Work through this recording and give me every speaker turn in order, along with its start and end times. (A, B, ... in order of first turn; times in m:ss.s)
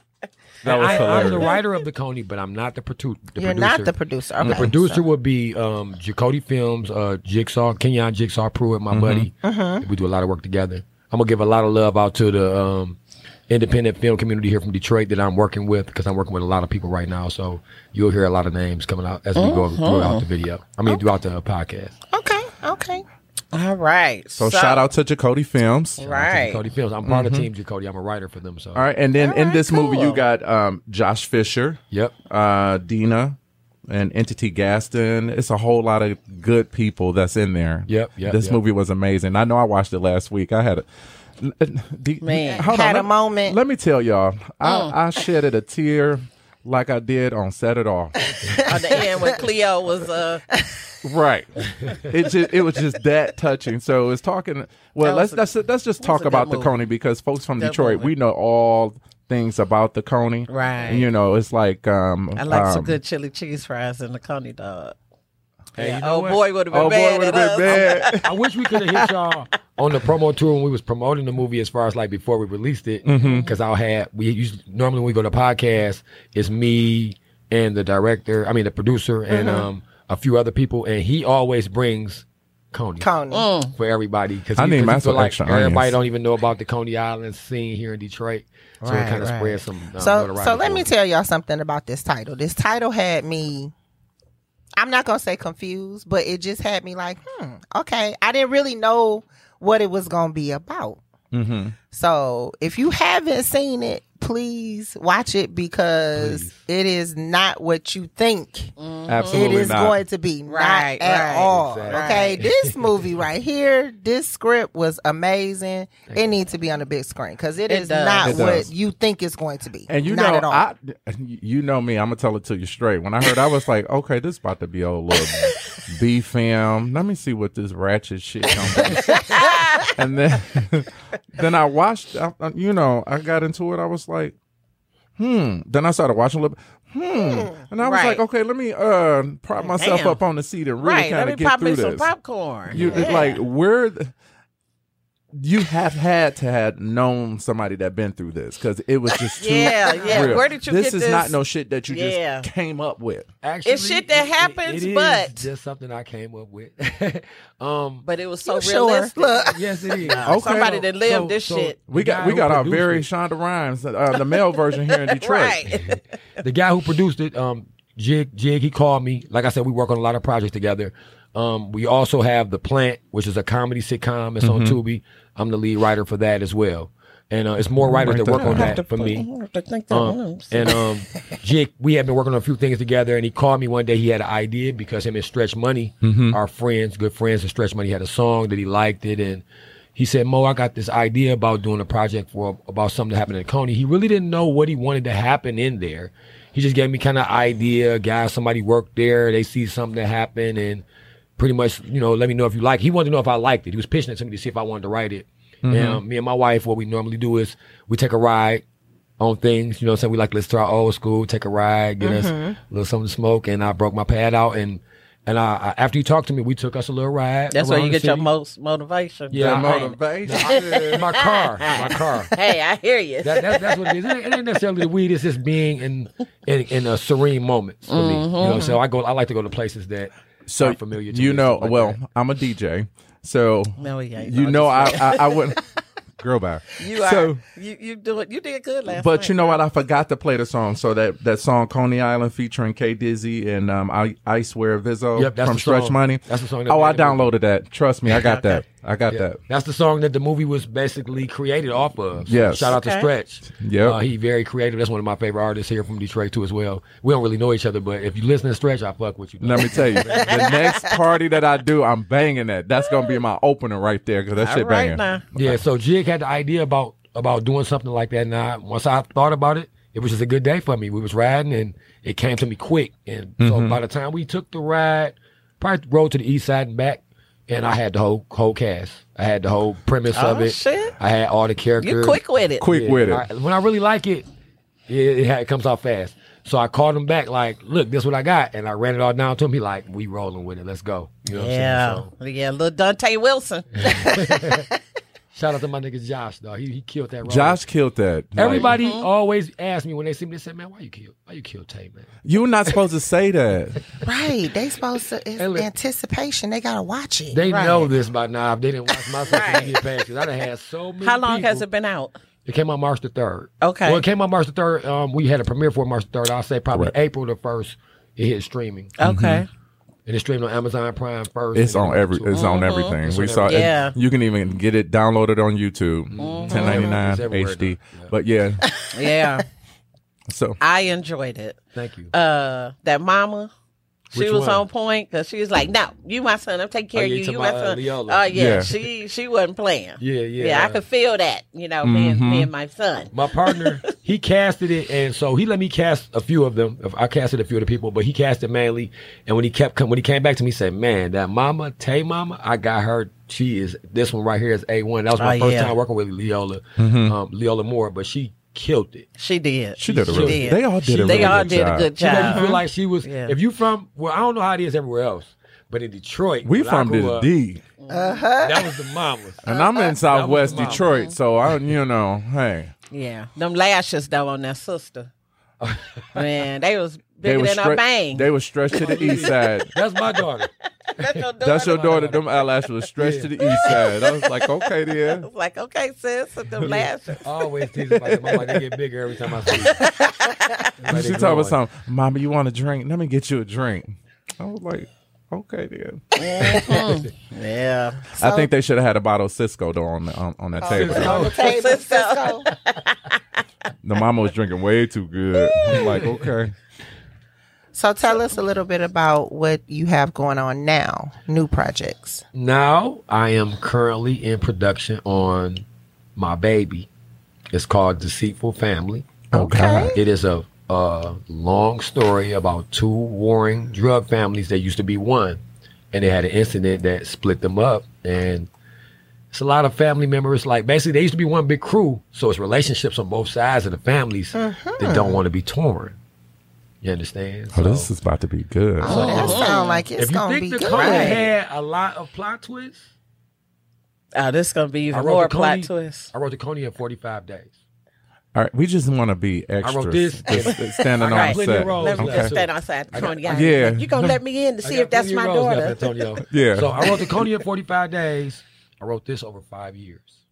0:00.6-0:13.0 A
0:00.6-0:01.5 B
0:03.4-0:05.0 C
0:04.4-0:04.7 B
0:08.9-0:09.3 B
0:09.4-0:09.8 C
0:13.5-0:22.0 A
0:19.4-0:20.2 D
0:22.1-0:23.0 C
0:23.5-0:24.8 D
0:24.4-0:26.0 B
0:26.0-0:26.6 D
0:26.0-0:28.9 A
0:27.1-0:27.5 B
0:28.8-0:33.4 B
0:29.2-0:30.2 C
0:29.6-0:30.2 D
0:33.9-0:40.9 B
0:37.9-0:38.6 A
0:41.4-0:48.2 B
0:42.2-0:42.7 D
0:42.6-0:43.6 C
0:44.6-0:44.9 D
0:48.2-0:49.3 C
0:48.6-0:50.5 D
0:50.6-0:50.9 C
0:51.0-1:03.0 B
0:55.0-0:55.5 D
0:56.0-0:56.8 D
0:57.6-0:58.1 D
1:00.5-1:01.1 D
1:02.4-1:05.0 D
1:05.8-1:06.4 A
1:05.8-1:08.2 D
1:06.7-1:08.3 B
1:08.2-1:23.1 A
1:13.0-1:13.5 B
1:19.3-1:19.7 C
1:23.0-1:23.5 C
1:23.3-1:23.7 D
1:23.7-1:30.9 A
1:24.6-1:25.9 B
1:28.8-1:29.5 D
1:28.9-1:29.3 C
1:30.0-1:33.7 C
1:34.8-1:41.0 C
1:41.3-1:41.8 B
1:41.9-1:48.7 C
1:46.2-1:46.6 A
1:48.8-1:49.7 D
1:49.1-1:50.0 B
1:49.3-2:00.6 C
1:50.5-1:52.4 D
1:51.4-1:52.8 A
1:57.7-1:58.7 D
1:58.2-1:58.7 B
1:59.9-2:14.4 B
2:09.1-2:09.9 D
2:15.2-2:22.1 B
2:17.8-2:18.2 D
2:19.6-2:20.2 D
2:20.8-2:23.4 D
2:22.7-2:24.1 B
2:22.7-2:23.1 A
2:22.9-2:23.2 C
2:25.3-2:33.3 B
2:29.4-2:31.4 D
2:29.6-2:30.4 C
2:31.9-2:32.5 D
2:33.4-2:38.0 A
2:33.6-2:35.5 D
2:38.0-2:41.8 D
2:38.5-2:39.9 C
2:39.5-2:43.1 A
2:40.3-2:40.7 B
2:41.9-2:45.6 B
2:44.9-2:46.2 D
2:45.7-2:59.3 A
2:54.4-2:54.8 B
2:57.8-2:58.8 B
2:58.1-3:00.9 D
2:59.9-3:09.4 A
3:06.0-3:06.4 B
3:10.0-3:20.8 A
3:21.4-3:28.6 A
3:25.6-3:26.0 B
3:29.2-3:38.3 A
3:32.0-3:32.6 C
3:37.5-3:44.1 D
3:39.3-3:42.4 A
3:39.4-3:41.0 B
3:43.2-3:52.0 A
3:47.9-3:48.8 D
3:50.5-3:55.6 B
3:53.8-3:55.5 D
3:56.2-3:57.4 B
3:56.8-3:59.6 D
3:58.9-4:09.4 B
4:05.2-4:07.3 A
4:08.1-4:08.6 D
4:09.1-4:20.5 A
4:12.3-4:12.8 B
4:12.7-4:13.1 D
4:13.5-4:14.0 B
4:19.4-4:25.6 B
4:20.4-4:20.7 D
4:24.4-4:25.2 D
4:25.4-4:42.2 A
4:33.4-4:33.8 B
4:40.1-4:41.0 D
4:41.8-4:42.7 D
4:42.6-4:43.3 B
4:42.7-4:44.3 A
4:44.9-4:52.1 A
4:51.3-4:54.2 D
4:53.8-4:54.7 A
4:55.3-4:57.6 A
4:57.2-4:58.8 B
4:58.4-5:02.2 A
4:58.7-4:59.1 D
5:02.2-5:03.8 B
5:04.0-5:07.4 C
5:05.4-5:05.7 A
5:07.3-5:11.7 A
5:07.5-5:07.9 D
5:09.3-5:09.7 D
5:11.0-5:12.2 D
5:12.4-5:19.0 A
5:13.6-5:14.0 D
5:19.0-5:19.5 D
5:19.0-5:19.4 B
5:20.1-5:23.9 A
5:21.6-5:28.7 B
5:22.3-5:24.0 D
5:26.1-5:28.2 A
5:26.2-5:26.9 D
5:26.6-5:27.0 C
5:28.9-5:29.4 D
5:30.3-5:30.6 B
5:30.6-5:31.6 D
5:31.7-5:32.1 A
5:32.1-5:33.5 D
5:34.1-5:43.8 D
5:34.1-5:34.6 A
5:36.9-5:38.8 A
5:38.3-5:38.7 B
5:40.0-5:40.8 A
5:41.8-5:42.5 B
5:43.1-5:59.1 A
5:55.2-5:55.8 D
5:56.8-5:57.2 B
5:59.2-6:02.5 D
5:59.8-6:01.9 B
5:59.9-6:07.3 A
6:02.2-6:02.6 C
6:03.0-6:03.4 D
6:06.4-6:07.6 B
6:07.8-6:08.3 D
6:07.9-6:08.9 C
6:08.4-6:09.4 A
6:09.4-6:12.7 B
6:09.5-6:10.0 C
6:10.0-6:10.9 A
6:10.5-6:11.2 D
6:12.9-6:15.1 D
6:15.6-6:16.3 A
6:16.1-6:19.3 D
6:17.2-6:19.7 B
6:18.7-6:22.4 A
6:20.9-6:21.8 D
6:21.4-6:25.3 B
6:23.0-6:23.8 A
6:23.4-6:28.5 D
6:26.6-6:29.9 A
6:29.5-6:30.9 D
6:30.8-6:31.6 A
6:30.9-6:36.8 B
6:36.2-6:38.0 D
6:38.2-6:41.4 B
6:38.2-6:38.5 C
6:40.6-6:42.5 C
6:40.6-6:41.6 A
6:41.2-6:43.4 D
6:43.8-6:46.5 B
6:45.6-6:46.0 D
6:45.8-6:46.2 A
6:47.7-6:52.2 C
6:52.3-6:55.6 A
6:56.2-6:56.9 A
6:57.5-6:59.3 A
6:59.3-7:00.0 B
6:59.3-7:00.0 C
6:59.9-7:05.4 A
7:05.9-7:08.5 A
7:09.3-7:16.0 A
7:14.3-7:15.2 C
7:16.8-7:17.9 A
7:17.5-7:19.4 B
7:18.8-7:21.2 C
7:18.8-7:19.8 D
7:18.9-7:22.8 A
7:20.6-7:21.3 D
7:24.2-7:26.1 D
7:24.9-7:27.6 A
7:28.4-7:32.4 B
7:29.6-7:33.2 A
7:30.9-7:36.2 D
7:33.0-7:34.1 B
7:34.6-7:40.2 A
7:36.2-7:37.2 B